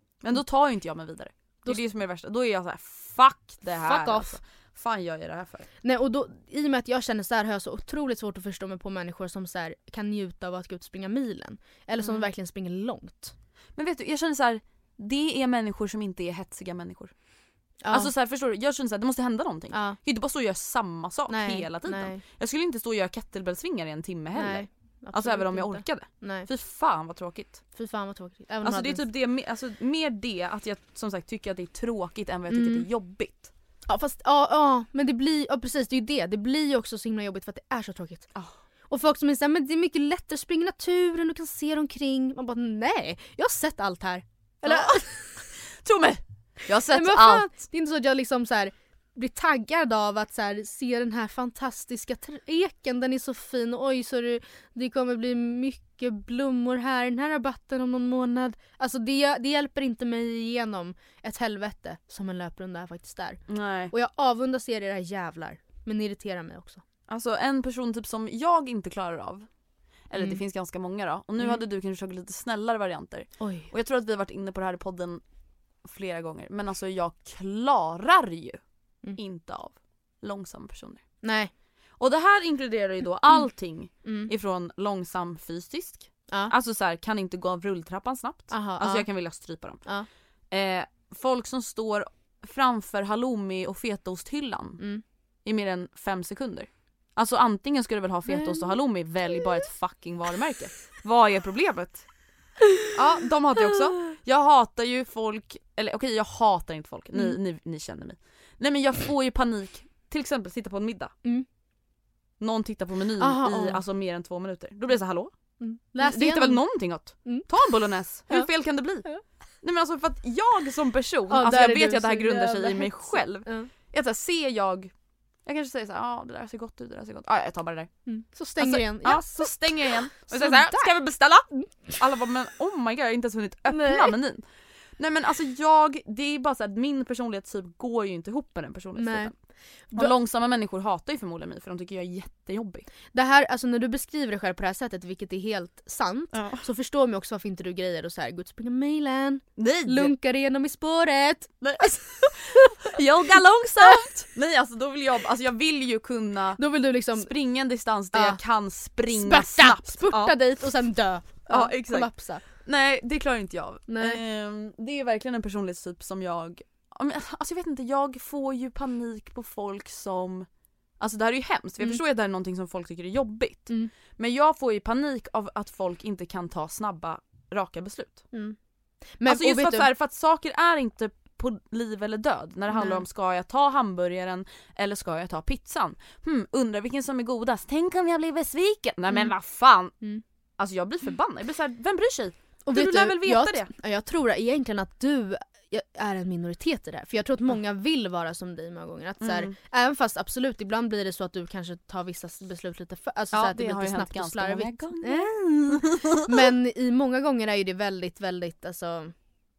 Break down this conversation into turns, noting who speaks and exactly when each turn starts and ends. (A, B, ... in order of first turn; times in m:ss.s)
0:00.2-0:05.7 A
0:03.8-0:04.4 B
0:05.8-0:13.3 B
0:12.0-0:12.3 A
0:13.8-0:17.1 A
0:17.8-0:18.1 B
0:17.9-0:27.6 A
0:19.7-0:20.0 B
0:21.3-0:22.2 B
0:24.4-0:26.5 B
0:27.8-0:29.0 B
0:28.6-0:33.5 A
0:32.5-0:32.9 B
0:33.9-0:38.3 B
0:38.9-0:45.1 B
0:44.6-0:45.1 A
0:45.8-0:47.5 A
0:46.9-1:03.4 B
1:03.5-1:03.9 A
1:03.9-1:06.8 B
1:07.1-1:09.5 A
1:10.1-1:15.2 A
1:13.4-1:13.7 B
1:15.8-1:18.6 A
1:19.2-1:21.0 A
1:21.2-1:21.5 B
1:22.0-1:29.8 A
1:24.0-1:24.3 B
1:28.5-1:29.1 B
1:30.5-1:34.8 A
1:35.4-1:42.0 A
1:38.3-1:38.7 B
1:42.9-1:51.1 A
1:52.4-1:55.3 A
1:53.2-1:53.8 B
1:55.6-1:56.6 B
1:56.0-1:59.1 A
1:59.6-2:04.9 A
2:01.3-2:03.7 B
2:05.5-2:07.9 A
2:08.1-2:10.9 B
2:08.6-2:14.4 A
2:13.7-2:14.2 B
2:15.0-2:19.4 A
2:19.0-2:19.3 B
2:19.9-2:22.9 A
2:23.1-2:32.8 B
2:26.3-2:26.6 A
2:29.6-2:30.2 A
2:31.6-2:40.4 A
2:33.8-2:34.1 B
2:36.6-2:37.3 B
2:38.1-2:38.4 B
2:39.1-2:42.4 B
2:41.5-2:50.5 A
2:43.9-2:44.2 B
2:51.0-2:58.2 A
2:59.2-2:59.9 B
2:59.3-3:09.9 A
3:02.7-3:03.0 B
3:10.6-3:13.7 A
3:12.7-3:29.1 B
3:19.2-3:19.5 A
3:23.3-3:26.5 A